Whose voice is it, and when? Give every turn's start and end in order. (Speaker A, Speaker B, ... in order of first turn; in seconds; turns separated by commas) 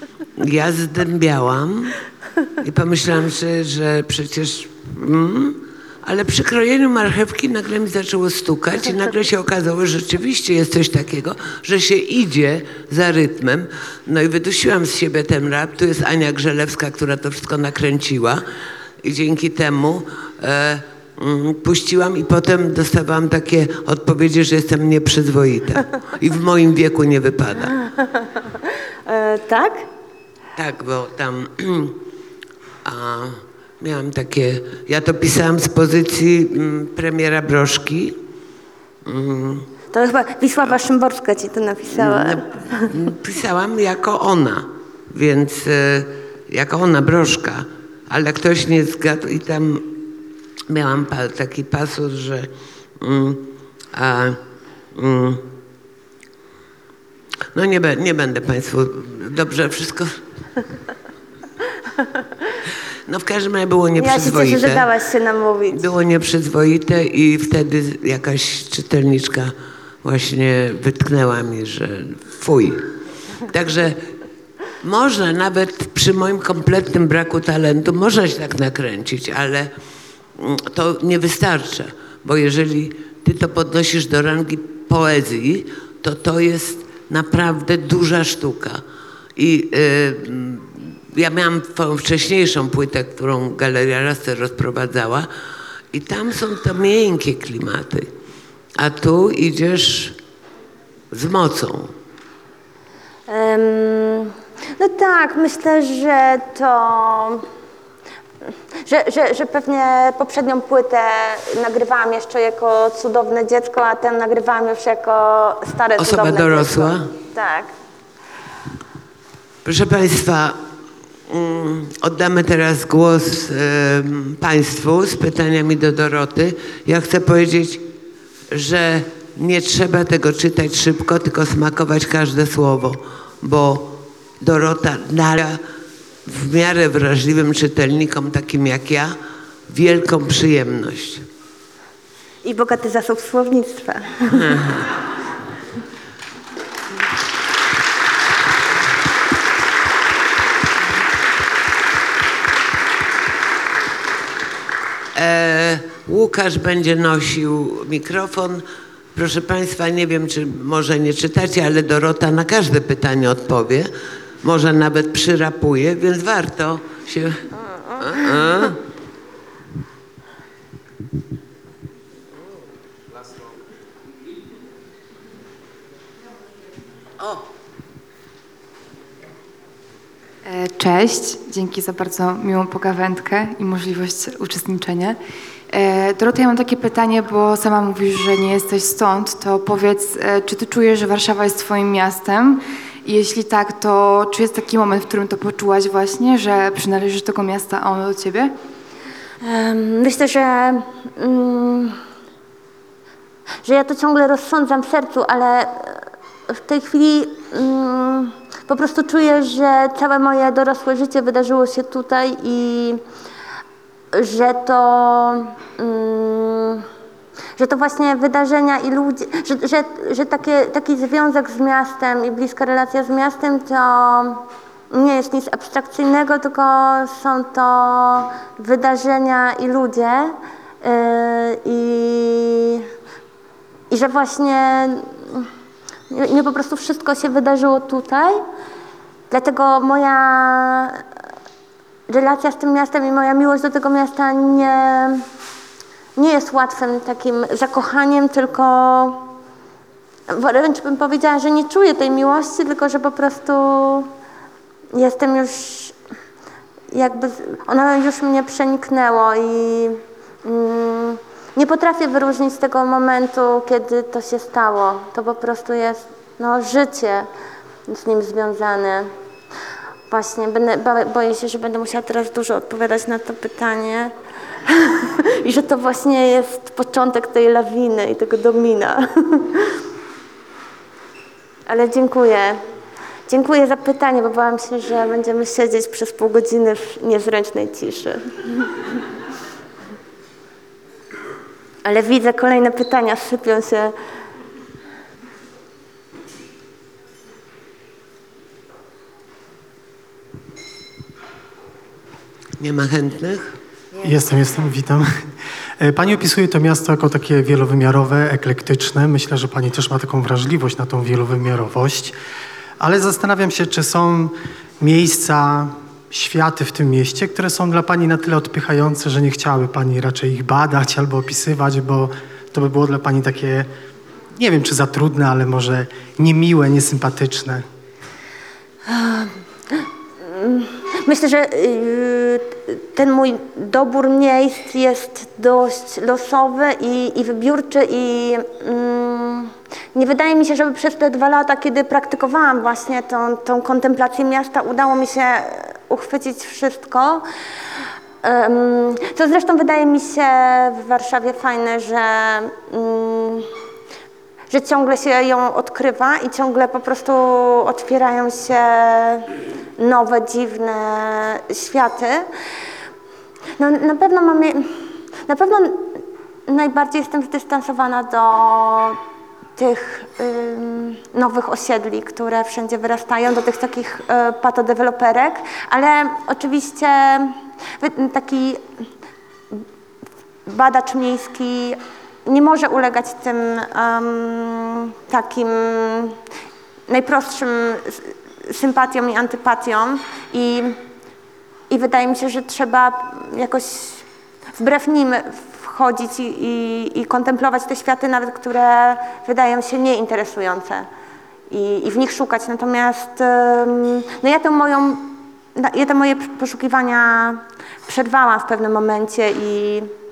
Speaker A: 0.4-1.9, Speaker A: 2.6-18.4, Speaker A: 19.0-27.7, Speaker B: 29.1-29.9, Speaker A: 30.6-32.0, Speaker A: 32.9-38.2, Speaker A: 39.0-39.7, Speaker B: 39.9-42.9, Speaker A: 41.9-50.0, Speaker A: 50.7-54.4, Speaker A: 54.9-55.5, Speaker A: 57.5-60.2, Speaker A: 63.1-64.9, Speaker B: 64.0-65.9, Speaker A: 65.7-72.9, Speaker A: 73.5-74.1, Speaker A: 74.8-79.7, Speaker A: 80.4-88.8, Speaker A: 89.4-95.3, Speaker A: 95.9-98.1, Speaker A: 98.8-100.2, Speaker A: 101.1-101.9, Speaker B: 103.3-107.5, Speaker B: 108.9-117.7, Speaker A: 116.0-117.1, Speaker A: 119.7-120.6, Speaker A: 121.3-127.9, Speaker A: 128.5-135.6, Speaker A: 136.2-139.2, Speaker A: 139.7-141.3, Speaker B: 142.4-144.5, Speaker A: 144.3-144.8, Speaker A: 155.2-163.9, Speaker A: 164.4-167.4, Speaker B: 167.8-168.4, Speaker A: 168.0-168.8, Speaker C: 180.4-185.2, Speaker C: 185.7-198.5, Speaker B: 199.4-202.0, Speaker B: 203.7-213.0, Speaker B: 214.1-216.9, Speaker B: 217.6-232.8, Speaker B: 233.9-235.5, Speaker B: 236.1-238.4, Speaker B: 239.3-241.0, Speaker B: 242.1-245.2, Speaker B: 246.2-249.3, Speaker B: 250.3-254.1, Speaker B: 254.9-255.9, Speaker B: 256.9-267.3, Speaker B: 267.9-269.1, Speaker B: 270.1-274.1, Speaker B: 274.7-279.8, Speaker B: 281.7-282.6, Speaker B: 283.3-288.7, Speaker B: 291.9-293.9, Speaker A: 302.6-303.6, Speaker D: 304.0-305.1, Speaker D: 305.8-312.2, Speaker D: 312.8-323.7, Speaker D: 324.4-327.6, Speaker B: 328.9-329.4, Speaker B: 330.2-347.2, Speaker B: 348.2-353.5, Speaker B: 354.5-362.2, Speaker B: 363.6-364.7, Speaker B: 365.3-369.0, Speaker B: 369.6-378.6, Speaker B: 380.5-386.2, Speaker B: 386.9-390.8, Speaker B: 391.7-394.1, Speaker B: 394.6-400.9, Speaker B: 401.5-409.9